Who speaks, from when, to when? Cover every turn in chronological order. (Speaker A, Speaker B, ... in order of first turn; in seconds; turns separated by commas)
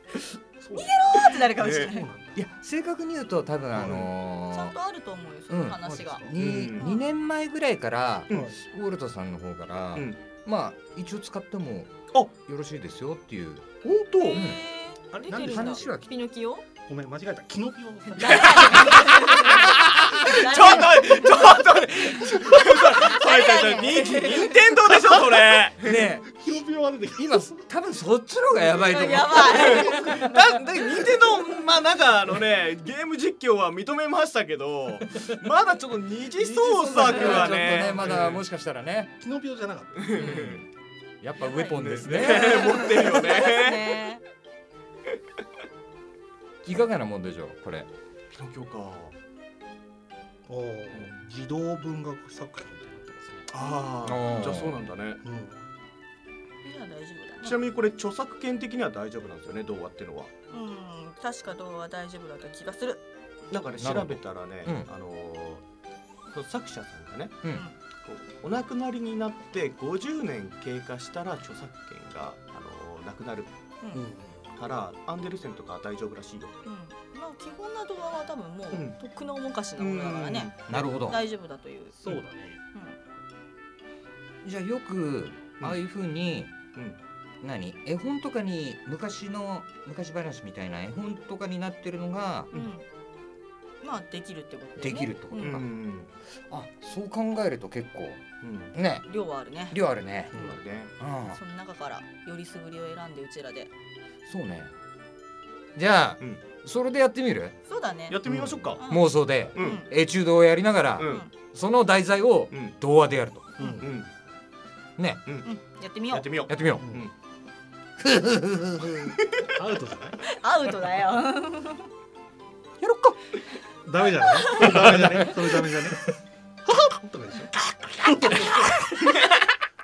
Speaker A: 0.6-0.9, Speaker B: 0.7-2.1, Speaker C: 1.6-1.9, Speaker A: 1.7-2.4, Speaker D: 2.4-4.8, Speaker C: 3.7-4.1, Speaker B: 4.5-7.1, Speaker D: 5.5-13.7, Speaker C: 6.4-6.9, Speaker C: 8.3-8.6, Speaker C: 9.9-10.2, Speaker C: 13.8-14.4, Speaker B: 14.2-16.7, Speaker D: 14.3-14.6, Speaker A: 15.1-15.8, Speaker D: 15.3-16.1, Speaker A: 16.9-19.7, Speaker B: 18.1-24.6, Speaker C: 18.2-26.1, Speaker D: 25.8-29.9, Speaker A: 26.4-27.6, Speaker B: 28.7-30.5, Speaker C: 29.5-38.4, Speaker A: 29.7-30.1, Speaker D: 36.4-39.1, Speaker A: 37.5-38.3, Speaker A: 39.2-40.1, Speaker C: 40.0-40.6, Speaker D: 40.2-40.6, Speaker D: 41.2-43.0, Speaker B: 41.4-44.2, Speaker C: 41.7-44.1, Speaker D: 46.6-47.9, Speaker C: 48.3-49.1, Speaker A: 50.5-53.5, Speaker C: 53.5-55.2, Speaker D: 54.0-54.8, Speaker A: 55.2-55.6, Speaker B: 56.6-57.6, Speaker C: 57.4-60.3, Speaker B: 60.5-63.0, Speaker C: 63.5-65.6, Speaker D: 63.8-64.9, Speaker C: 66.3-67.4, Speaker B: 67.5-67.8, Speaker C: 68.0-73.5, Speaker A: 73.9-74.4, Speaker C: 74.6-76.6, Speaker B: 76.6-82.0, Speaker C: 78.7-79.0, Speaker C: 79.8-81.0, Speaker D: 80.7-81.2, Speaker A: 82.0-82.6, Speaker B: 82.7-83.0, Speaker D: 84.4-86.5, Speaker D: 87.4-92.5, Speaker B: 92.5-92.8, Speaker B: 93.8-95.6, Speaker D: 94.8-95.7, Speaker C: 95.4-96.1, Speaker D: 96.5-98.2, Speaker C: 98.4-98.8, Speaker D: 98.7-99.1, Speaker B: 99.1-99.8, Speaker D: 99.7-100.4, Speaker C: 100.3-100.9, Speaker A: 100.3-100.6, Speaker D: 101.0-101.4, Speaker B: 101.3-103.7, Speaker D: 104.2-104.7, Speaker D: 105.8-107.5, Speaker B: 107.7-108.2, Speaker C: 108.1-108.8, Speaker A: 108.3-108.6, Speaker B: 108.8-109.9, Speaker D: 108.9-113.5, Speaker C: 109.5-109.8, Speaker C: 111.0-111.2, Speaker B: 111.0-111.3, Speaker C: 112.5-112.8, Speaker B: 113.6-113.8, Speaker A: 113.6-113.9, Speaker C: 113.8-114.1, Speaker D: 115.0-115.2, Speaker B: 115.4-116.3, Speaker C: 116.1-117.1, Speaker D: 116.5-116.9, Speaker A: 116.8-117.1, Speaker D: 118.0-119.2, Speaker A: 119.5-120.2, Speaker B: 120.3-121.9, Speaker D: 122.8-123.2, Speaker A: 123.8-126.1, Speaker B: 124.4-124.8, Speaker A: 126.7-129.2